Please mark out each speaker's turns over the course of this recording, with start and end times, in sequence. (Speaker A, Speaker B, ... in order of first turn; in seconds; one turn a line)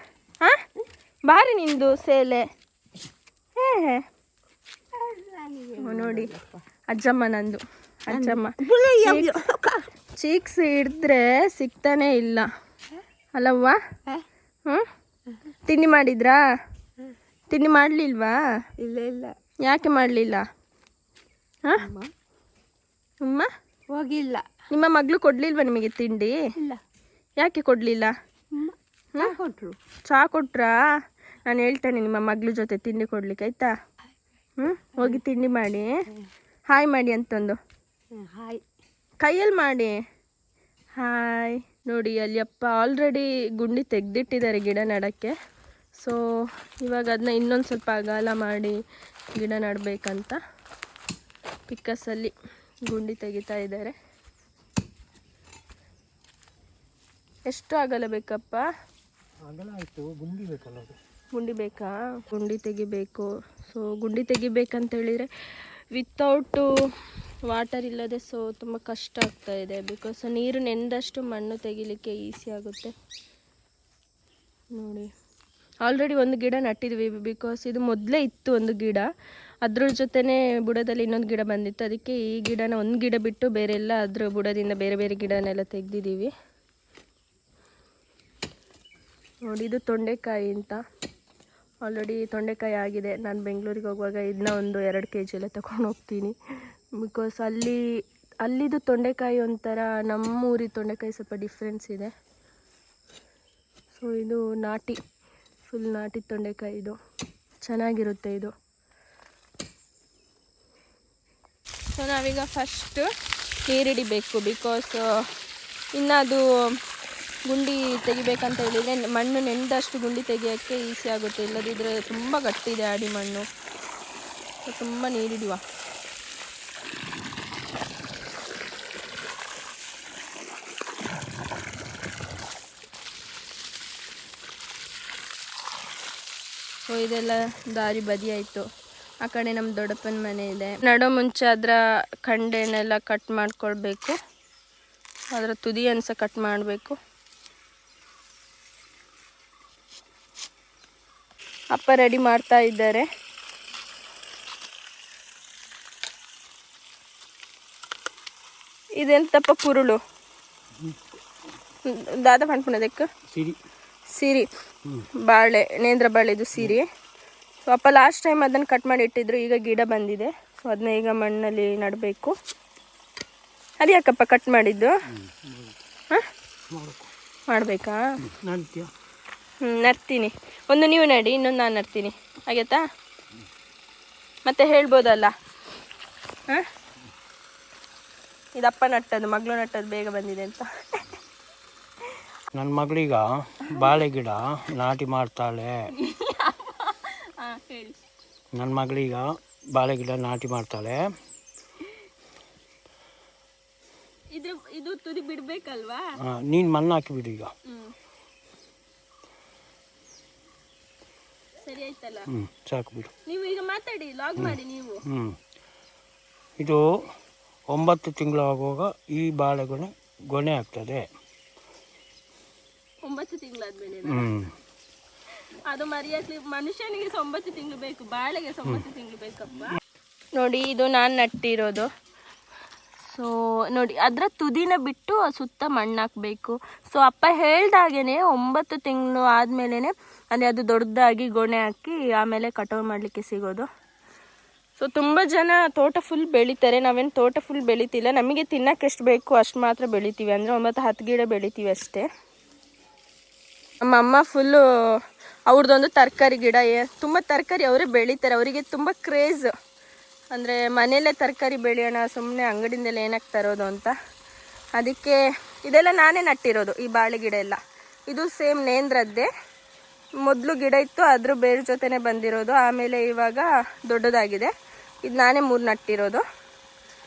Speaker A: 1.3-2.5
Speaker A: 3.6-4.0
Speaker B: 4.9-6.6
Speaker A: 5.8-6.3
Speaker A: 6.9-9.4
Speaker B: 8.1-9.9
Speaker A: 10.2-12.5
Speaker A: 13.3-13.8
Speaker A: 15.7-16.4
Speaker A: 17.5-18.4
Speaker B: 18.8-19.4
Speaker A: 19.6-20.4
Speaker B: 21.8-22.1
Speaker A: 23.2-23.5
Speaker B: 23.9-24.5
Speaker A: 24.7-26.4
Speaker A: 27.4-28.1
Speaker B: 28.5-29.8
Speaker A: 30.1-30.8
Speaker A: 31.5-33.7
Speaker A: 34.6-35.9
Speaker A: 36.7-37.6
Speaker B: 38.1-38.6
Speaker A: 39.2-39.9
Speaker A: 41.0-45.3
Speaker A: 46.8-48.8
Speaker A: 49.4-50.4
Speaker A: 51.7-52.3
Speaker A: 52.9-54.0
Speaker A: 57.5-58.6
Speaker C: 59.4-61.0
Speaker A: 61.4-65.3
Speaker A: 66.0-66.7
Speaker A: 67.5-72.9
Speaker A: 74.8-75.1
Speaker A: 75.8-79.1
Speaker A: 79.6-86.3
Speaker A: 89.5-90.8
Speaker A: 91.8-96.3
Speaker A: 97.0-97.8
Speaker A: 98.5-102.1
Speaker A: 104.0-105.0
Speaker A: 105.7-107.0
Speaker A: 107.7-108.5
Speaker A: 111.9-113.0
Speaker A: 113.7-115.0
Speaker A: 116.0-116.5
Speaker A: 117.5-123.4
Speaker A: 124.7-125.6
Speaker A: 136.9-138.7
Speaker A: 139.2-144.2
Speaker A: 145.3-146.9
Speaker A: 151.8-153.1
Speaker A: 159.0-160.0
Speaker A: 161.9-163.1
Speaker C: 163.3-163.6
Speaker A: 164.1-164.5
Speaker A: 165.2-166.9
Speaker A: 167.7-172.3
Speaker A: 173.8-174.9
Speaker C: 175.2-175.7
Speaker C: 176.7-177.1
Speaker A: 177.5-178.0
Speaker C: 178.3-178.9
Speaker A: 179.6-182.8
Speaker A: 184.5-185.3
Speaker A: 188.6-190.7
Speaker C: 192.5-195.7
Speaker A: 196.0-198.0
Speaker C: 198.6-201.0
Speaker A: 204.3-206.1
Speaker C: 206.3-207.5
Speaker A: 207.7-207.9
Speaker A: 211.6-212.3
Speaker C: 212.3-213.1
Speaker A: 213.3-215.0
Speaker C: 215.1-215.4
Speaker C: 217.7-221.0
Speaker A: 223.0-224.3
Speaker C: 224.1-224.5
Speaker A: 225.7-229.7
Speaker A: 230.4-231.9
Speaker A: 233.0-243.7
Speaker A: 244.8-252.1
Speaker A: 253.8-254.6
Speaker A: 255.5-259.5
Speaker A: 260.3-263.9
Speaker A: 264.8-267.6
Speaker A: 268.1-269.3
Speaker A: 270.2-274.5
Speaker A: 275.0-276.2